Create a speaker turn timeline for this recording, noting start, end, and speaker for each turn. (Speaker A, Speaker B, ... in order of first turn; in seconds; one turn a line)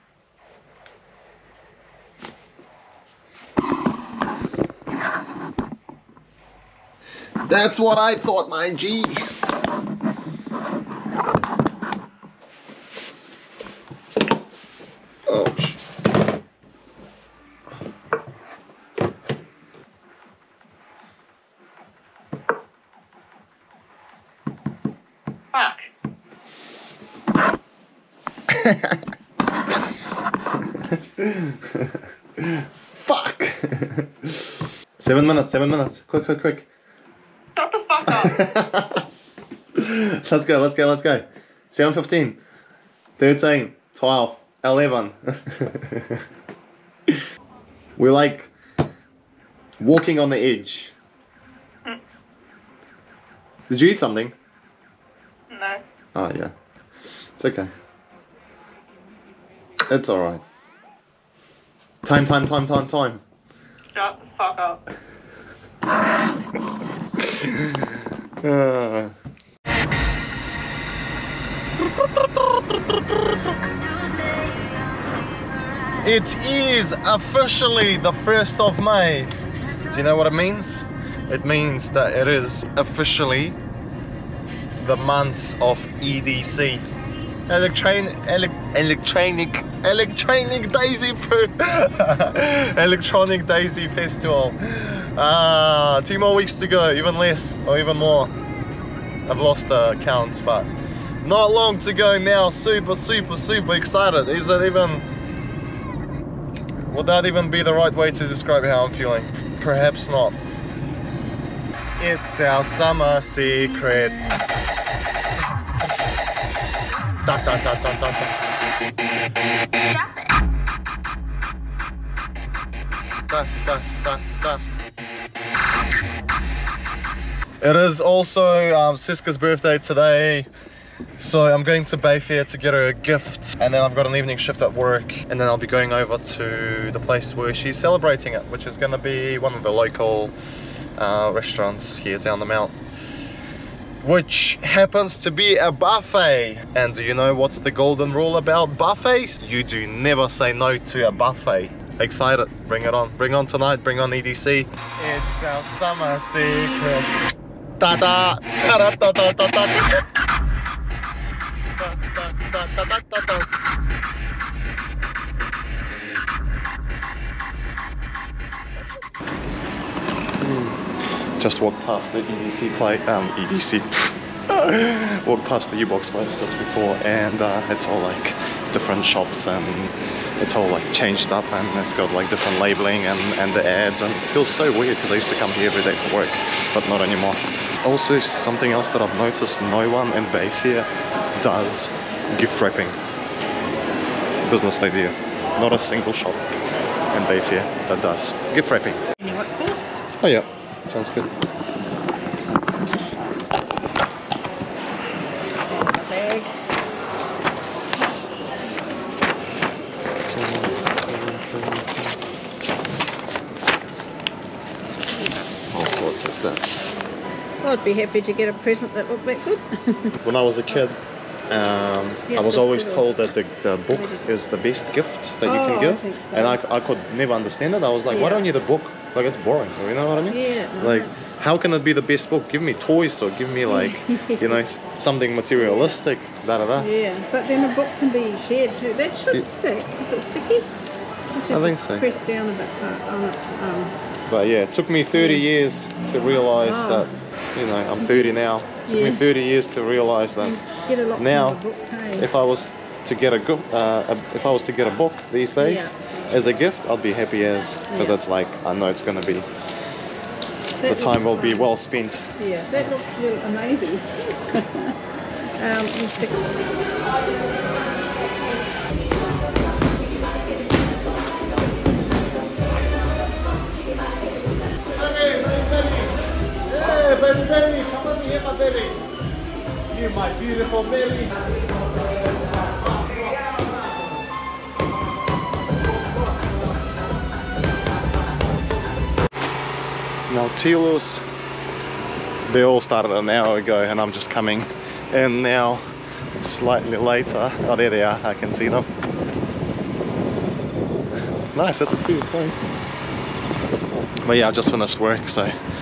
Speaker A: 7.5-9.2
Speaker A: 15.3-15.8
Speaker A: 28.5-29.0
Speaker A: 31.2-31.6
Speaker A: 32.9-36.7
Speaker A: 38.1-39.0
Speaker A: 39.8-42.4
Speaker A: 43.2-46.2
Speaker A: 48.0-48.5
Speaker A: 49.8-50.9
Speaker A: 53.7-54.4
Speaker A: 56.1-56.5
Speaker A: 57.4-57.7
Speaker A: 59.9-60.4
Speaker A: 62.0-63.2
Speaker A: 67.2-67.9
Speaker A: 68.4-69.1
Speaker A: 76.0-83.6
Speaker A: 84.8-86.8
Speaker A: 87.5-98.3
Speaker A: 99.3-100.7
Speaker A: 101.2-105.1
Speaker A: 106.9-110.4
Speaker A: 112.0-114.4
Speaker A: 117.2-118.3
Speaker A: 123.3-124.6
Speaker A: 127.6-130.5
Speaker A: 131.2-140.3
Speaker A: 141.0-142.8
Speaker A: 144.0-157.1
Speaker A: 157.8-160.0
Speaker A: 161.8-163.5
Speaker A: 170.4-170.8
Speaker A: 171.4-193.0
Speaker A: 194.4-196.4
Speaker A: 197.1-199.0
Speaker B: 199.2-200.0
Speaker A: 200.2-201.3
Speaker B: 205.5-206.5
Speaker A: 210.3-212.2
Speaker A: 215.7-216.7
Speaker B: 217.6-220.2
Speaker A: 220.2-221.0
Speaker A: 221.5-236.9
Speaker B: 222.3-223.1
Speaker B: 223.9-224.3
Speaker B: 225.4-226.6
Speaker B: 228.1-228.4
Speaker B: 230.3-231.1
Speaker B: 233.7-234.6
Speaker B: 235.6-235.9
Speaker B: 236.8-240.7
Speaker B: 241.3-243.9
Speaker A: 241.5-242.1
Speaker A: 244.3-250.6
Speaker B: 245.1-245.4
Speaker B: 246.6-247.1
Speaker B: 248.1-248.3
Speaker B: 248.8-249.2
Speaker B: 250.4-252.3
Speaker A: 251.2-259.5
Speaker B: 255.6-255.9
Speaker B: 257.9-258.2
Speaker B: 260.8-261.7
Speaker A: 260.8-262.3
Speaker B: 262.4-264.9
Speaker B: 265.6-266.7
Speaker A: 274.8-279.1
Speaker A: 279.9-281.4
Speaker A: 282.8-283.5
Speaker A: 290.3-291.2
Speaker A: 292.5-295.8
Speaker A: 296.4-298.9
Speaker A: 301.5-302.7
Speaker A: 304.2-305.5